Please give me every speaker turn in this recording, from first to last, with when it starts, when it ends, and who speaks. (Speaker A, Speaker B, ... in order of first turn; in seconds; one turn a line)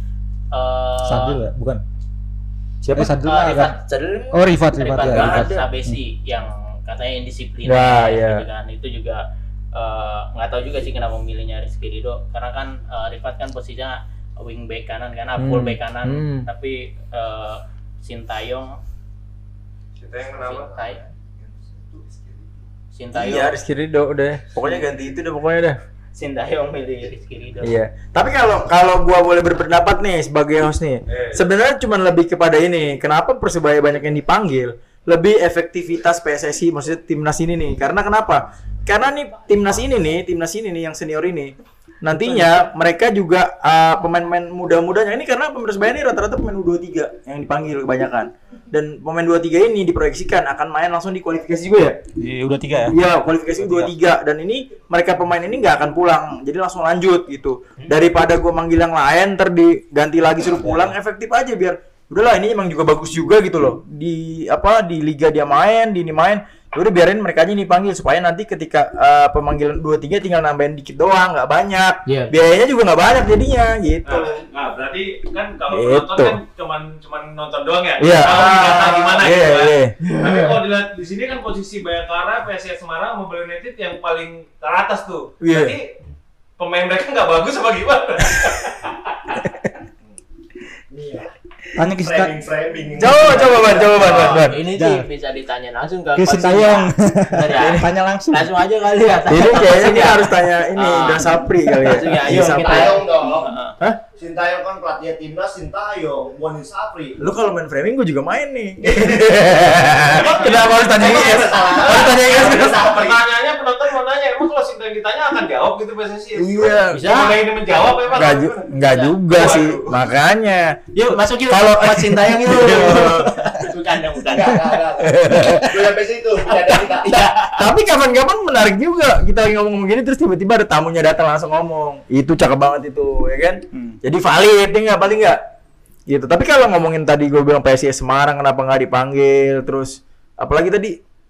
Speaker A: 0.5-1.4
Speaker B: 1.1-1.8
Speaker C: 2.8-5.7
Speaker B: 2.9-3.7
Speaker A: 3.2-3.8
Speaker B: 4.3-6.0
Speaker A: 4.8-18.8
Speaker C: 7.6-8.4
Speaker C: 15.4-16.5
Speaker D: 20.0-21.1
Speaker A: 20.4-21.0
Speaker E: 21.9-22.2
Speaker A: 22.9-23.6
Speaker C: 23.1-25.8
Speaker A: 26.1-27.8
Speaker C: 27.6-52.0
Speaker D: 31.1-31.4
Speaker B: 52.2-53.0
Speaker C: 52.9-74.3
Speaker A: 72.1-72.4
Speaker D: 74.0-85.9
Speaker C: 75.7-76.4
Speaker C: 78.0-80.6
Speaker C: 85.4-85.8
Speaker D: 86.6-89.2
Speaker C: 89.3-89.7
Speaker E: 90.9-91.3
Speaker B: 91.8-92.5
Speaker E: 91.9-94.0
Speaker C: 93.0-94.6
Speaker B: 93.0-95.0
Speaker A: 93.3-103.7
Speaker B: 96.2-98.5
Speaker C: 97.5-97.9
Speaker C: 99.3-103.0
Speaker B: 101.7-102.0
Speaker E: 102.2-103.6
Speaker E: 104.1-107.2
Speaker C: 107.2-112.9
Speaker D: 110.1-118.7
Speaker E: 110.7-113.2
Speaker C: 116.3-117.1
Speaker A: 116.9-117.4
Speaker C: 118.1-123.5
Speaker A: 118.7-119.2
Speaker D: 119.3-120.1
Speaker A: 120.9-124.7
Speaker E: 124.2-127.3
Speaker C: 125.0-125.8
Speaker A: 126.5-127.7
Speaker C: 127.6-135.4
Speaker C: 136.1-140.9